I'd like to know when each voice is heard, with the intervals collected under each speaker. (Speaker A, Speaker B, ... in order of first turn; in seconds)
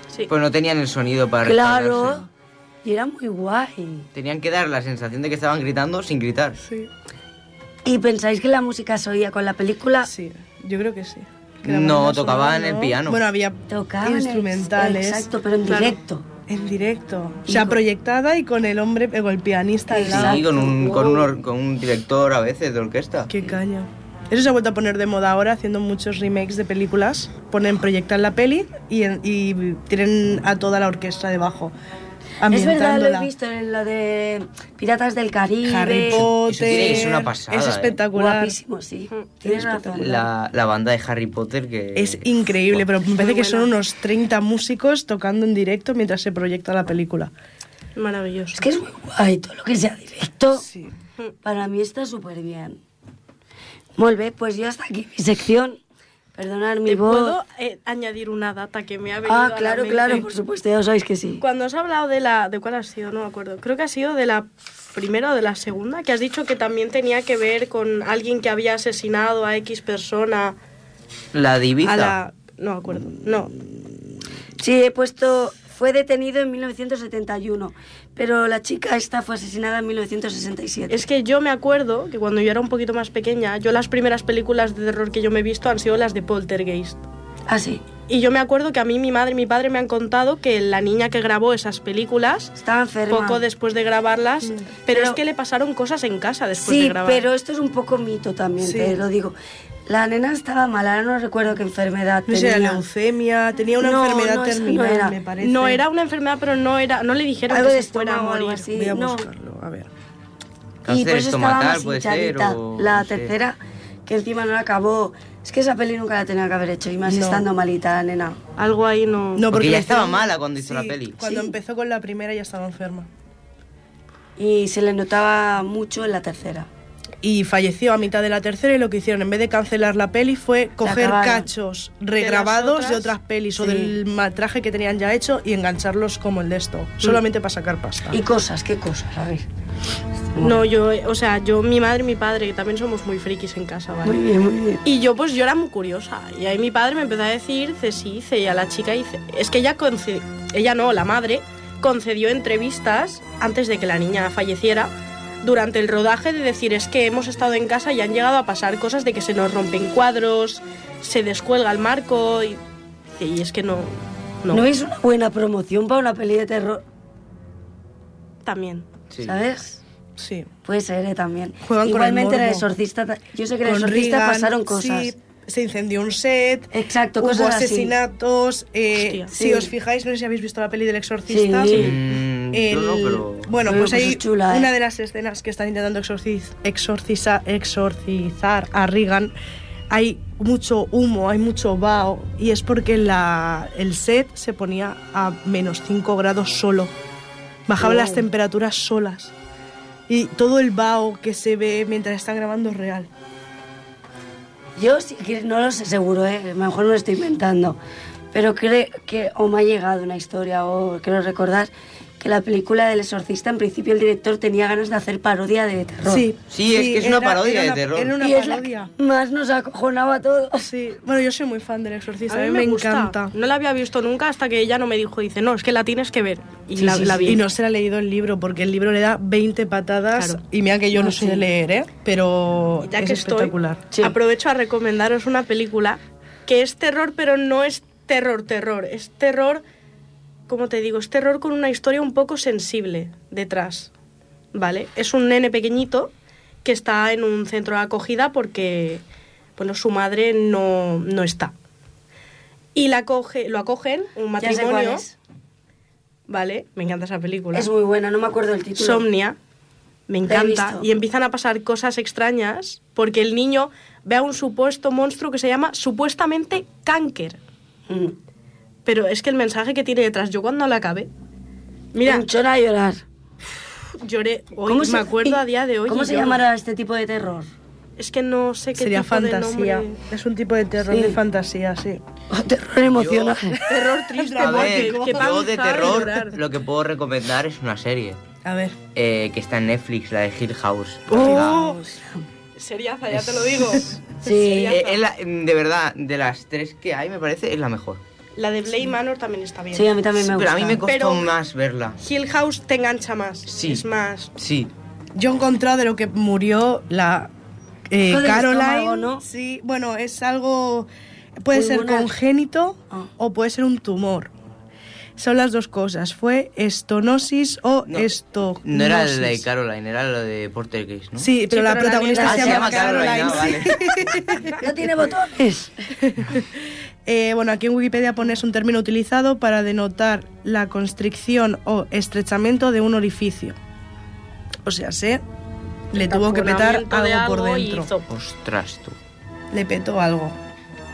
Speaker A: 0.3-2.2, 4.1-6.6, 11.6-13.2, 20.1-23.3, 36.1-38.0, 39.5-42.9, 71.3-72.2, 110.8-113.3, 119.5-121.2, 169.1-169.4, 181.7-183.5, 216.5-218.2, 282.9-283.6, 284.4-288.2, 288.9-291.6, 294.7-298.0, 300.1-302.0, 303.5-303.8, 304.4-304.7, 317.9-321.3, 322.2-324.3, 338.1-339.0
Speaker B: 1.4-2.3, 2.8-4.1, 7.8-10.1, 13.7-16.2, 17.5-17.8, 19.9-21.3, 32.5-36.3, 38.1-40.3, 48.5-50.6, 51.4-52.8, 54.0-55.8, 56.4-57.4, 59.2-61.4, 74.6-81.1, 87.5-87.8, 92.6-93.4, 94.9-95.2, 96.6-99.3, 99.9-102.8, 103.8-105.2, 107.5-109.3, 110.8-118.4, 121.2-121.5, 124.4-126.7, 130.8-131.5, 133.6-134.0, 138.1-139.4, 140.3-140.6, 144.0-144.8, 164.5-166.8, 169.2-169.8, 170.6-175.1, 176.7-177.9, 179.3-179.7, 181.3-182.0, 183.6-184.7, 197.8-198.3, 204.8-207.8, 208.3-216.3, 218.2-220.7, 226.8-227.4, 230.9-231.4, 233.9-234.2, 254.4-255.1, 257.5-259.1, 260.3-260.9, 267.9-268.2, 272.0-273.0, 274.6-277.5, 280.8-281.2, 282.3-283.6, 291.1-292.2, 294.2-294.8, 299.7-300.8, 308.0-309.2, 311.5-312.1, 322.1-323.5, 324.6-325.9
Speaker C: 6.6-6.9, 10.0-15.3, 16.5-20.6, 23.3-31.7, 32.4-33.3, 35.6-38.5, 42.0-47.3, 50.6-50.9, 94.4-94.7, 98.6-99.0, 102.3-105.8, 108.6-109.9, 117.1-117.4, 119.3-123.1, 127.2-138.2, 170.2-170.5, 171.6-172.7, 173.6-189.3, 189.9-196.9, 197.7-199.3, 200.1-203.1, 216.1-218.9, 220.6-223.3, 227.2-233.8, 278.8-282.0, 283.7-286.2, 288.4-288.8, 291.1-291.9, 305.1-307.3, 307.9-314.3, 315.2-319.4, 321.2-324.6, 326.0-326.5, 327.1-333.6, 334.6-335.2, 335.9-337.9, 339.5-340.4
Speaker D: 15.7-15.9, 43.0-43.7, 48.0-48.6, 56.9-60.3, 61.4-70.5, 71.8-73.5, 80.9-87.0, 88.1-92.5, 93.1-97.2, 105.4-108.7, 118.6-119.5, 132.2-133.1, 140.4-144.2, 144.8-154.9, 155.4-162.6, 163.2-164.7, 168.4-168.8, 178.9-179.3, 222.3-227.4, 230.1-230.4, 232.8-239.6, 240.5-243.9, 244.5-246.1, 246.6-249.0, 249.6-251.5, 252.7-255.0, 256.3-257.7, 258.8-259.4, 260.1-267.4, 268.8-271.1, 271.9-272.3, 274.0-276.4, 278.0-280.0, 283.7-286.3, 292.6-295.0, 298.4-299.9, 300.8-301.3, 302.0-304.3, 321.5-323.3, 335.9-338.1